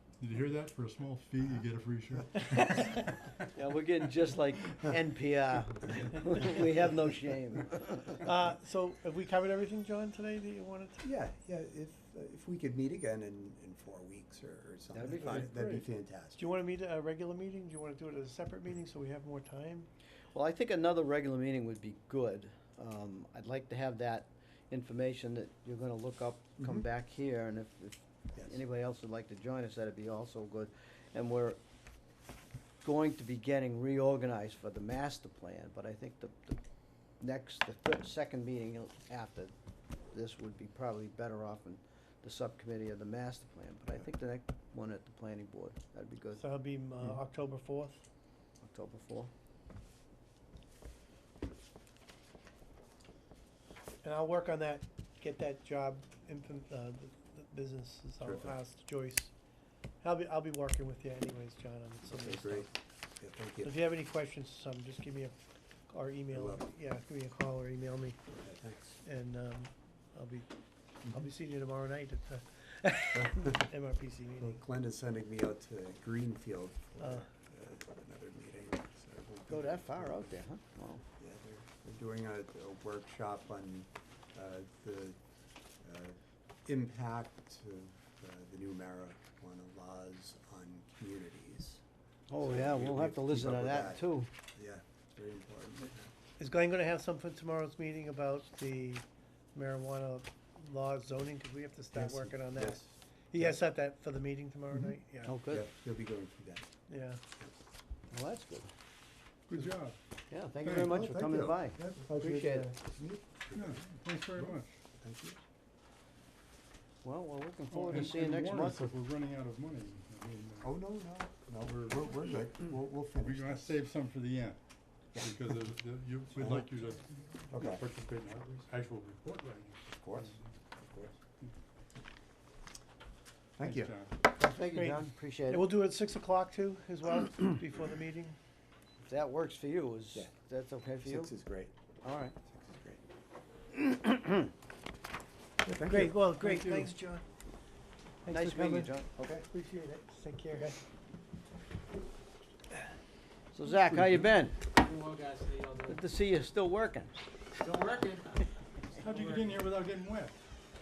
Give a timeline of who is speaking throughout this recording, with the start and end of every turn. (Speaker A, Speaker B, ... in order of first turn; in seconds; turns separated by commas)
Speaker A: 0.2-3.3, Speaker B: 3.5-8.2, Speaker C: 8.2-11.1, Speaker D: 11.0-16.5, Speaker B: 14.9-15.7, Speaker C: 15.1-15.8, Speaker C: 16.4-19.9, Speaker B: 20.3-31.6, Speaker D: 26.6-26.8, Speaker D: 28.3-28.6, Speaker B: 32.8-36.6, Speaker B: 37.2-39.5, Speaker B: 40.1-46.4, Speaker C: 46.4-48.0, Speaker B: 48.6-49.3, Speaker C: 54.0-59.3, Speaker D: 58.2-58.6, Speaker C: 60.0-62.7, Speaker D: 62.1-63.7, Speaker C: 63.6-65.3, Speaker C: 65.9-68.2, Speaker D: 66.3-66.7, Speaker D: 68.3-69.0, Speaker C: 69.0-70.5, Speaker C: 71.1-74.6, Speaker D: 73.1-73.7, Speaker D: 74.4-80.4, Speaker C: 77.0-77.3, Speaker B: 79.5-81.0, Speaker D: 81.0-85.2, Speaker D: 85.8-91.8, Speaker B: 92.3-94.3, Speaker D: 92.3-96.1, Speaker C: 96.4-105.3, Speaker D: 101.9-103.6, Speaker B: 105.2-105.6, Speaker D: 105.5-106.7, Speaker C: 106.9-107.2, Speaker B: 108.1-108.7, Speaker A: 109.5-110.0, Speaker B: 110.3-112.7, Speaker A: 110.6-110.9, Speaker D: 110.8-115.4, Speaker A: 113.5-114.7, Speaker B: 117.0-118.9, Speaker A: 117.7-120.8, Speaker D: 120.6-123.8, Speaker A: 121.6-122.0, Speaker A: 123.2-124.6, Speaker A: 125.1-130.4, Speaker D: 126.4-126.7, Speaker D: 127.5-127.8, Speaker D: 130.0-131.2, Speaker D: 133.6-133.9, Speaker A: 133.6-134.1, Speaker B: 134.3-135.7, Speaker C: 134.7-138.4, Speaker B: 139.0-141.3, Speaker D: 141.0-141.7, Speaker B: 142.0-142.3, Speaker D: 142.4-143.0, Speaker B: 143.9-144.3, Speaker C: 145.7-147.2, Speaker D: 145.7-146.1, Speaker C: 148.2-150.8, Speaker B: 148.3-149.1, Speaker D: 149.2-149.4, Speaker B: 153.5-154.6, Speaker E: 154.7-156.0, Speaker B: 155.9-157.1, Speaker E: 157.6-158.4, Speaker A: 158.9-160.3, Speaker E: 159.0-159.6